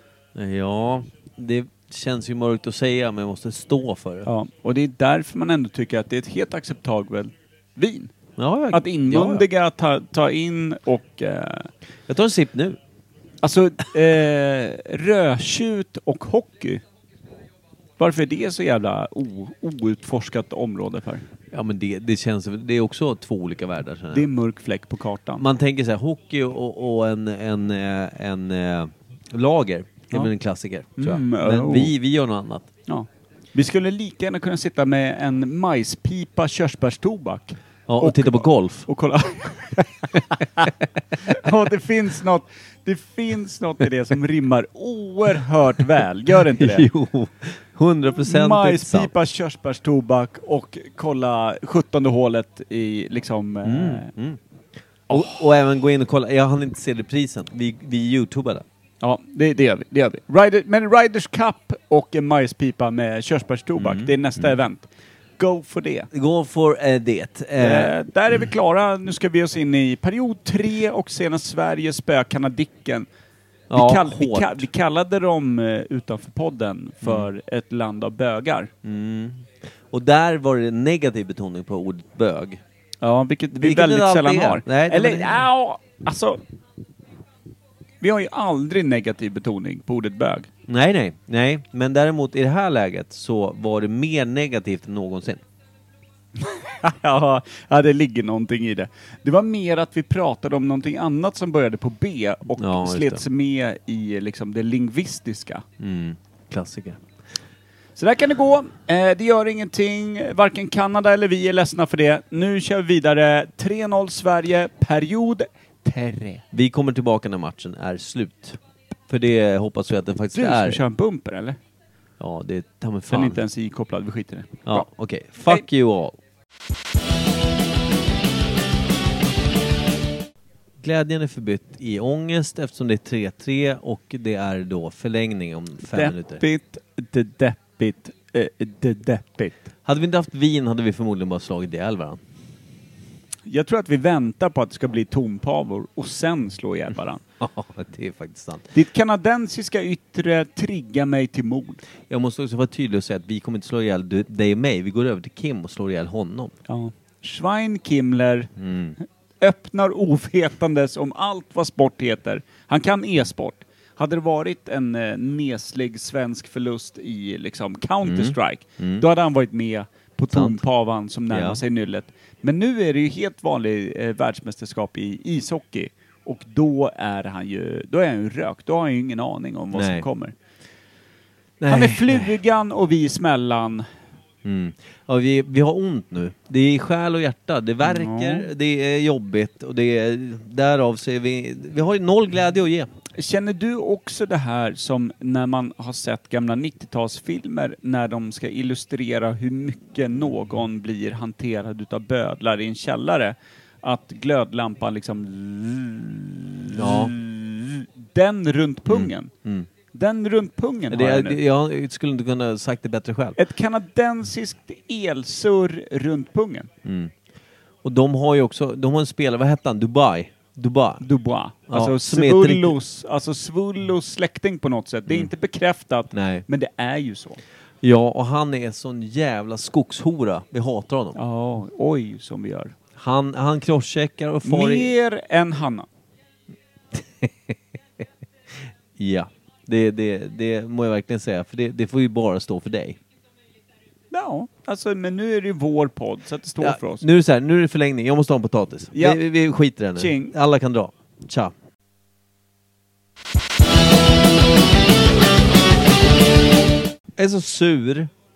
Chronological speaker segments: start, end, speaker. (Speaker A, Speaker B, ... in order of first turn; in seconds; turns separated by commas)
Speaker A: 0.3-4.3, Speaker B: 4.2-8.1, Speaker A: 8.4-9.4, Speaker B: 8.7-11.7, Speaker A: 12.1-12.8, Speaker B: 13.4-16.8, Speaker B: 18.0-21.2, Speaker A: 21.5-24.3, Speaker B: 24.1-25.4, Speaker A: 25.4-32.7, Speaker B: 30.9-31.9, Speaker B: 32.9-40.7, Speaker A: 37.9-38.9, Speaker B: 41.2-46.9, Speaker A: 46.4-49.1, Speaker B: 48.1-54.1, Speaker A: 53.6-54.4, Speaker A: 55.1-58.6, Speaker B: 59.0-64.9, Speaker A: 63.8-64.4, Speaker B: 65.4-66.1, Speaker A: 66.1-67.9, Speaker B: 67.6-73.1, Speaker A: 73.7-74.7, Speaker B: 73.7-78.7, Speaker A: 77.0-77.3, Speaker A: 78.8-82.6, Speaker B: 83.0-86.4, Speaker A: 83.5-85.5, Speaker B: 88.0-90.5, Speaker A: 90.7-95.4, Speaker B: 96.4-105.6, Speaker A: 102.6-103.2, Speaker A: 105.8-107.0, Speaker B: 108.0-116.4, Speaker A: 116.5-120.8, Speaker B: 120.3-121.6, Speaker A: 122.2-123.4, Speaker B: 123.1-124.8, Speaker A: 124.7-126.2, Speaker A: 130.8-136.4, Speaker B: 135.9-139.6, Speaker A: 139.8-142.2, Speaker B: 143.4-147.2, Speaker A: 147.4-148.7, Speaker B: 148.7-151.8, Speaker A: 152.1-156.5, Speaker B: 156.7-158.5, Speaker A: 158.6-159.0, Speaker B: 159.4-180.3, Speaker A: 168.0-169.1, Speaker A: 170.3-170.6, Speaker A: 171.3-171.6, Speaker A: 179.7-180.1, Speaker A: 181.6-182.3, Speaker B: 181.7-183.8, Speaker A: 184.4-192.9, Speaker B: 187.8-188.5, Speaker B: 193.2-209.3, Speaker A: 206.7-207.1, Speaker A: 208.9-209.7, Speaker B: 209.9-211.4, Speaker A: 210.9-213.4, Speaker B: 213.4-216.7, Speaker A: 216.8-217.1, Speaker A: 217.8-221.0, Speaker B: 221.0-227.4, Speaker A: 221.7-222.8, Speaker A: 226.1-226.4, Speaker A: 227.8-231.2, Speaker B: 231.2-232.7, Speaker A: 232.9-234.9, Speaker B: 234.4-235.8, Speaker A: 236.9-237.3, Speaker A: 239.0-243.0, Speaker B: 244.1-247.0, Speaker A: 246.6-251.5, Speaker B: 248.9-249.3, Speaker B: 249.8-250.3, Speaker A: 257.2-258.1